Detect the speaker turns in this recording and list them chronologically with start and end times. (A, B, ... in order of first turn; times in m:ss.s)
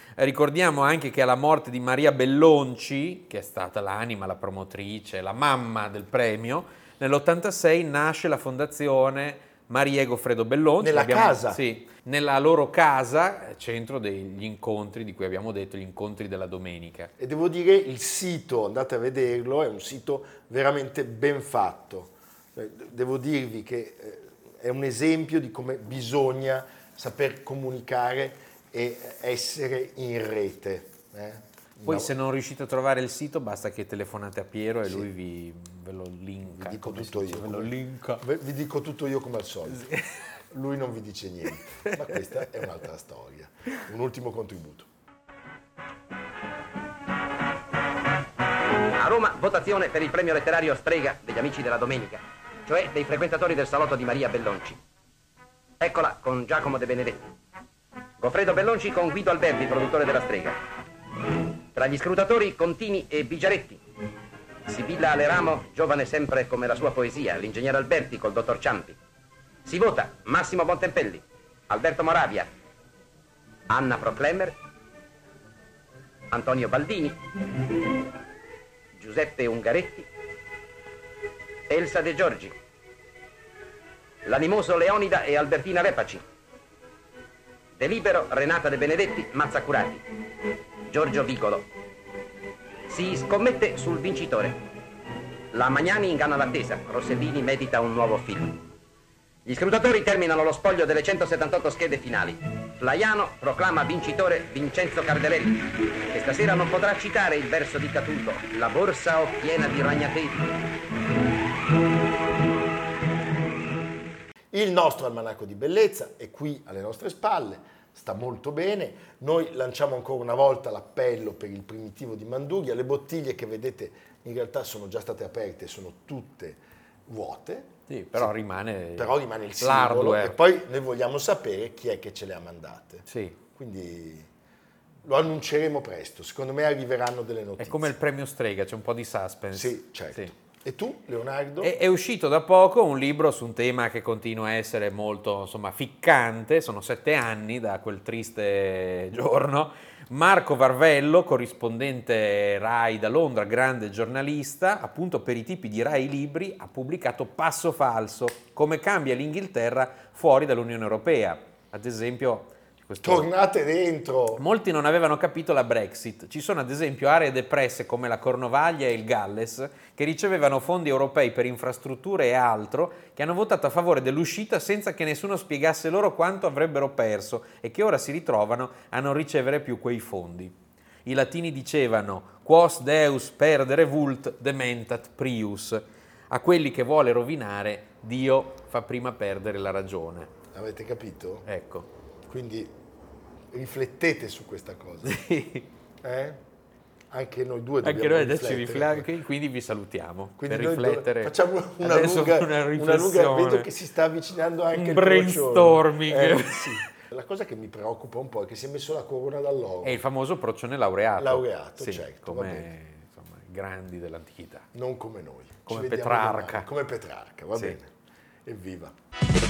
0:00.2-0:17.1 A
0:10.8-0:11.6 B
0:17.2-0:32.1 B
0:31.8-0:38.2 A
0:36.5-0:39.9 B
0:39.7-0:40.1 A
0:40.5-0:44.9 B
0:41.8-0:42.2 A
0:49.0-0:54.8 C
0:55.8-0:57.2 C
0:58.2-1:00.6 C
1:01.7-1:03.8 C
1:04.6-1:09.0 C
1:09.6-1:12.5 C
1:13.7-1:14.6 C
1:16.3-1:17.2 C
1:19.0-1:20.1 C
1:21.7-1:22.6 C
1:24.2-1:26.2 C
1:27.8-1:30.0 C
1:30.9-1:31.7 C
1:32.9-1:34.6 C
1:35.5-1:38.6 C
1:39.4-1:50.5 C
1:54.5-2:08.3 B
2:07.9-2:10.4 A
2:09.0-2:14.3 B
2:13.1-2:13.4 A
2:15.0-2:17.9 B
2:17.6-2:20.3 A
2:19.5-2:21.7 B
2:21.6-2:43.3 A
2:43.0-2:44.4 B
2:44.4-3:10.3 A
3:10.5-3:11.5 B
3:11.4-3:11.9 A
3:12.3-3:12.7 B
3:13.5-3:15.2 B
3:15.0-3:15.7 A
3:16.0-3:16.4 B
3:17.1-3:19.1 B
3:17.8-3:23.7 A
3:20.4-3:30.0 B
3:24.7-3:26.8 A
3:29.8-3:34.7 A
3:31.2-3:32.7 B
3:34.7-3:37.9 B
3:35.7-3:36.7 A
3:38.4-3:38.9 B